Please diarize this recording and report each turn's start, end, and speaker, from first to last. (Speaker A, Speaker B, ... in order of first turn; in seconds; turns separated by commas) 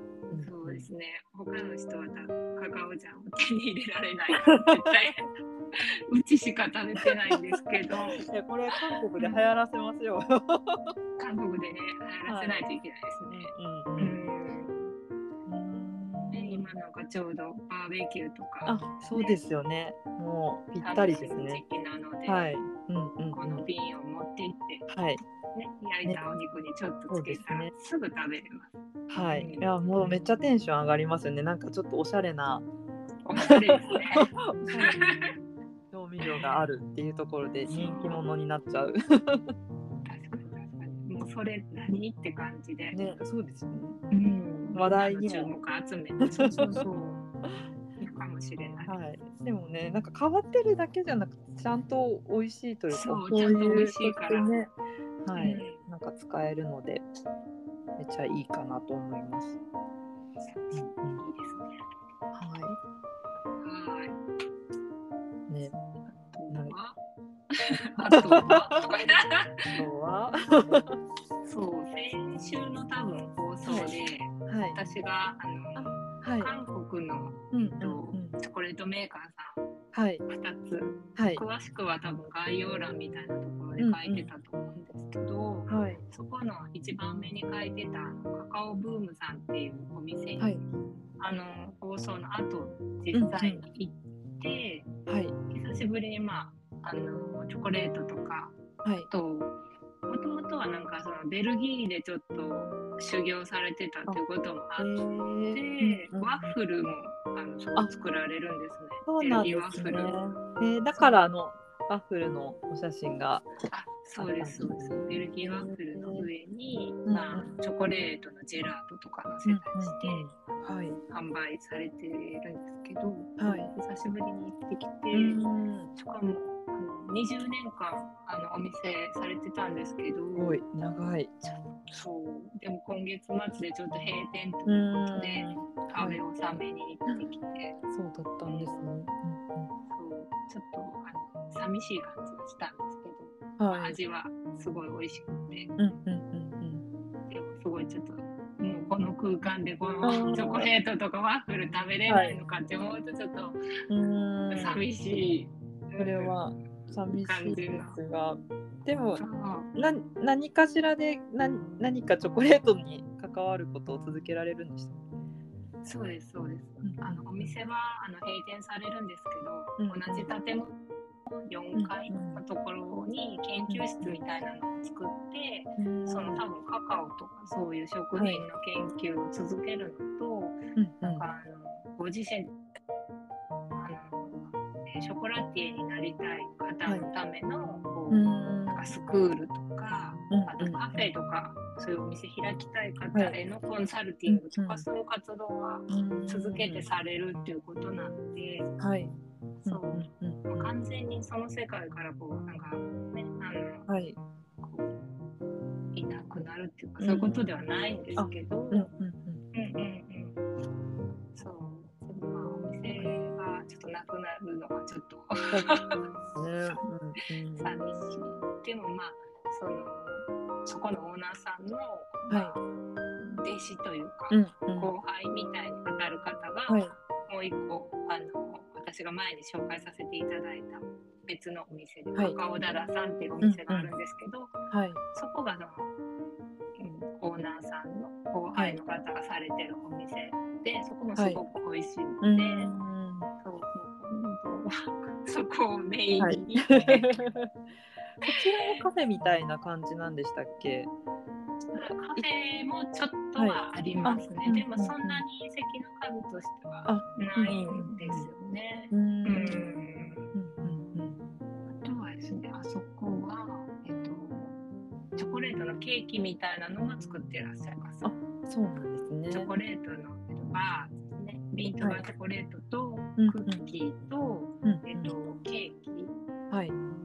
Speaker A: 0.3-0.9, Speaker B: 0.3-8.2, Speaker A: 4.5-5.0, Speaker A: 7.0-10.9, Speaker B: 11.2-14.9, Speaker A: 12.3-12.6, Speaker A: 13.3-14.2, Speaker A: 15.5-16.7, Speaker B: 16.3-19.4, Speaker A: 18.6-21.6, Speaker B: 20.8-22.5, Speaker A: 22.3-23.6, Speaker B: 23.3-24.9, Speaker A: 24.9-25.2, Speaker B: 25.5-30.2, Speaker A: 27.1-27.7, Speaker A: 29.1-32.6, Speaker B: 33.2-35.3, Speaker A: 33.4-35.0, Speaker A: 35.9-39.5, Speaker B: 36.2-36.6, Speaker B: 37.7-38.2, Speaker B: 40.0-43.0, Speaker A: 42.9-44.0, Speaker B: 44.1-47.2, Speaker A: 44.7-45.5, Speaker A: 46.2-46.8, Speaker A: 47.5-48.1, Speaker B: 48.0-49.0, Speaker A: 48.9-57.0, Speaker B: 52.9-54.5, Speaker B: 55.3-55.8, Speaker A: 58.0-59.6, Speaker B: 60.5-61.8, Speaker A: 60.7-61.2, Speaker A: 62.3-62.8, Speaker B: 63.6-64.2, Speaker A: 65.5-65.7, Speaker B: 66.1-67.0, Speaker A: 66.5-66.8, Speaker B: 67.5-69.8, Speaker A: 68.1-68.6, Speaker A: 69.7-71.0, Speaker B: 71.4-79.6, Speaker A: 73.6-73.9, Speaker A: 74.5-74.8, Speaker A: 75.8-76.5, Speaker A: 77.5-78.3, Speaker A: 79.9-80.2, Speaker B: 80.3-90.6, Speaker A: 81.2-81.4, Speaker A: 83.8-84.3, Speaker A: 85.7-86.0, Speaker B: 91.2-94.9, Speaker A: 93.1-93.6, Speaker A: 95.1-95.3, Speaker B: 95.5-98.5, Speaker B: 99.1-99.5, Speaker B: 100.1-105.0, Speaker A: 104.8-106.5, Speaker B: 105.5-110.2, Speaker A: 109.0-113.5, Speaker B: 110.9-111.2, Speaker B: 113.7-130.5, Speaker A: 114.2-116.3, Speaker A: 117.0-117.5, Speaker A: 119.5-121.0, Speaker A: 123.4-123.7, Speaker A: 125.1-125.9, Speaker A: 130.3-131.3, Speaker B: 131.4-137.8, Speaker A: 134.7-136.2, Speaker A: 137.9-139.7, Speaker B: 138.4-138.9, Speaker B: 139.9-145.8, Speaker A: 143.6-144.0, Speaker A: 145.8-146.8, Speaker B: 147.3-153.6, Speaker A: 150.0-150.7, Speaker A: 152.1-152.4, Speaker A: 153.9-154.8, Speaker B: 154.5-156.3, Speaker A: 156.0-159.2, Speaker B: 157.1-158.0, Speaker B: 159.2-159.7, Speaker A: 159.7-164.9, Speaker B: 165.8-170.7, Speaker A: 166.8-167.6, Speaker A: 169.8-170.3, Speaker B: 171.3-182.5, Speaker A: 171.7-172.4, Speaker A: 173.7-174.1, Speaker A: 175.8-176.4, Speaker A: 178.2-178.4, Speaker A: 180.8-181.3, Speaker B: 183.7-198.7, Speaker A: 188.1-188.9, Speaker A: 190.3-191.1, Speaker A: 194.3-194.8, Speaker A: 195.9-196.8, Speaker A: 198.8-199.1, Speaker A: 199.6-200.7, Speaker B: 199.6-203.9, Speaker A: 203.9-204.2, Speaker B: 204.6-205.0, Speaker B: 205.9-208.9, Speaker A: 207.0-207.4, Speaker A: 208.2-209.4, Speaker B: 209.5-210.4, Speaker B: 211.3-216.0, Speaker A: 216.3-217.7, Speaker B: 217.6-222.7, Speaker A: 222.3-222.6, Speaker B: 223.2-234.5, Speaker A: 224.3-224.9, Speaker A: 226.7-226.9, Speaker A: 233.4-233.9, Speaker A: 234.7-235.0, Speaker B: 235.1-235.9, Speaker B: 236.8-242.7, Speaker A: 241.2-241.4, Speaker A: 242.2-243.3, Speaker B: 243.4-247.2, Speaker A: 246.2-247.5, Speaker B: 248.2-248.8, Speaker A: 248.2-250.9, Speaker B: 251.7-260.3, Speaker A: 253.4-255.2, Speaker A: 256.9-258.3, Speaker A: 258.9-259.8, Speaker A: 260.3-261.2, Speaker B: 261.7-264.6, Speaker B: 265.1-268.1, Speaker A: 268.0-269.5, Speaker B: 269.3-276.1, Speaker A: 271.8-272.0, Speaker A: 273.2-273.6, Speaker A: 274.6-275.1, Speaker A: 276.5-276.8